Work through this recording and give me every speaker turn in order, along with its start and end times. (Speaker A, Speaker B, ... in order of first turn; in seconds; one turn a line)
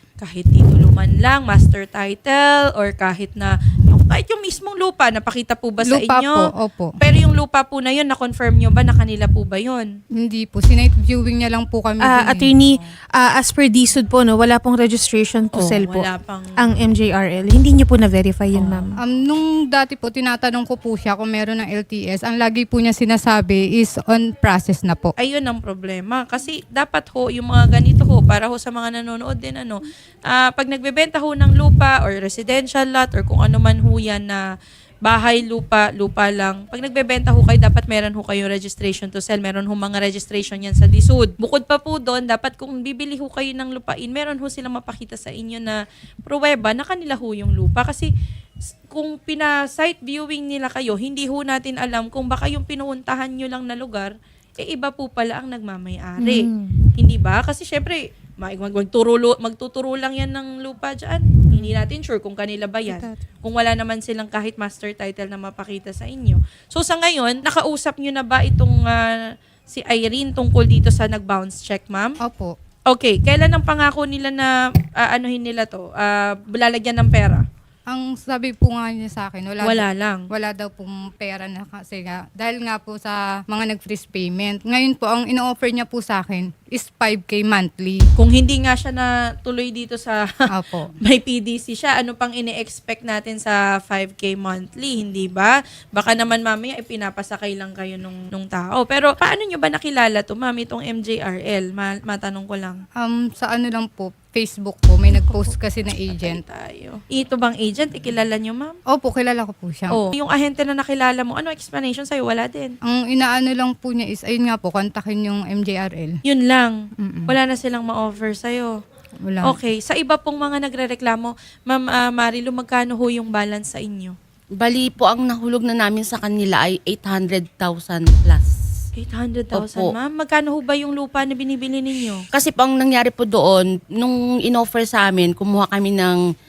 Speaker A: 0.2-6.5
Speaker B: 5.8-7.0
Speaker A: 7.0-9.9
Speaker B: 10.2-12.8
Speaker C: 12.0-18.9
Speaker A: 15.5-16.5
Speaker A: 18.5-18.8
Speaker B: 19.0-25.1
Speaker A: 25.2-34.4
Speaker A: 35.0-48.1
Speaker A: 48.9-69.2
Speaker C: 56.2-56.8
Speaker C: 61.5-61.7
Speaker C: 62.9-63.2
Speaker A: 69.7-72.2
Speaker B: 72.2-72.5
Speaker A: 72.9-77.4
Speaker B: 77.9-88.1
Speaker A: 79.6-80.3
Speaker A: 88.2-90.4
Speaker B: 90.5-90.9
Speaker A: 91.0-102.8
Speaker B: 103.0-106.4
Speaker A: 106.1-108.7
Speaker B: 108.9-110.0
Speaker A: 109.9-112.7
Speaker B: 112.8-116.2
Speaker A: 116.2-116.7
Speaker B: 117.0-117.3
Speaker A: 117.3-118.7
Speaker B: 119.2-119.6
Speaker A: 119.4-124.2
Speaker D: 124.5-128.5
Speaker A: 128.9-132.2
Speaker D: 129.5-129.9
Speaker D: 132.3-136.2